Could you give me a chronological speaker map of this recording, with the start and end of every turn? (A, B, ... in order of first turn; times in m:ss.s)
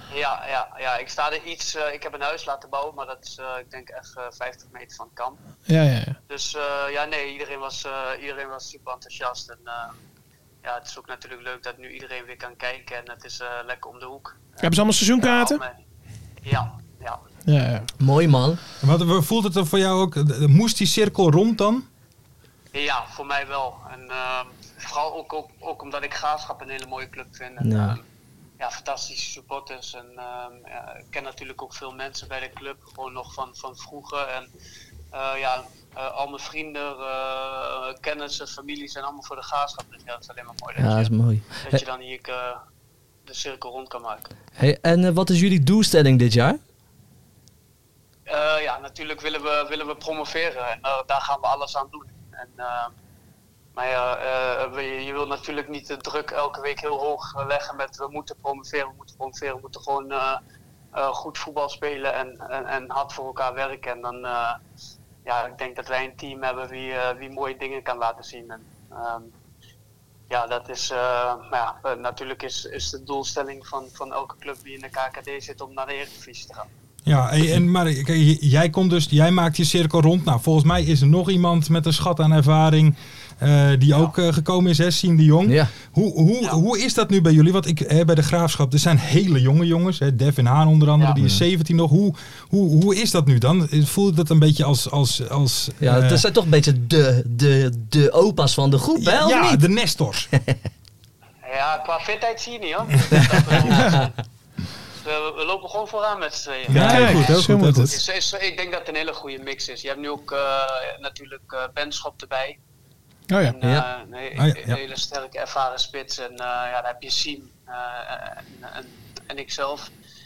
0:00.1-0:05.4 A
0:05.7-0:06.2 B
0:06.3-0:10.0 A
0:10.6-0:15.8 A
0:14.6-0:15.6 B
0:16.4-0:17.2 A
0:17.4-0:17.9 B
0:18.0-0:18.6 C
0:18.8-0:21.9 D
0:22.7-0:28.0 A
0:27.6-0:28.0 C
0:28.6-0:34.5 A
0:35.1-0:42.6 A
0:40.8-0:41.8 C
0:43.2-0:44.3 A
0:44.6-0:46.6 C
0:48.3-0:52.9 A
0:53.7-1:00.4 A
1:00.9-1:04.6 A
1:05.2-1:09.3 A
1:10.3-1:16.7 A
1:17.0-1:36.2 D
1:25.4-1:25.7 C
1:35.8-1:39.6 C
1:39.0-1:40.3 D
1:41.4-1:44.2 A
1:43.1-1:44.1 C
1:45.0-1:52.6 A
1:46.7-1:48.0 D
1:46.7-1:47.9 B
1:46.8-1:47.1 C
1:53.3-1:53.6 B
1:53.4-1:59.9 A
1:54.4-1:54.8 D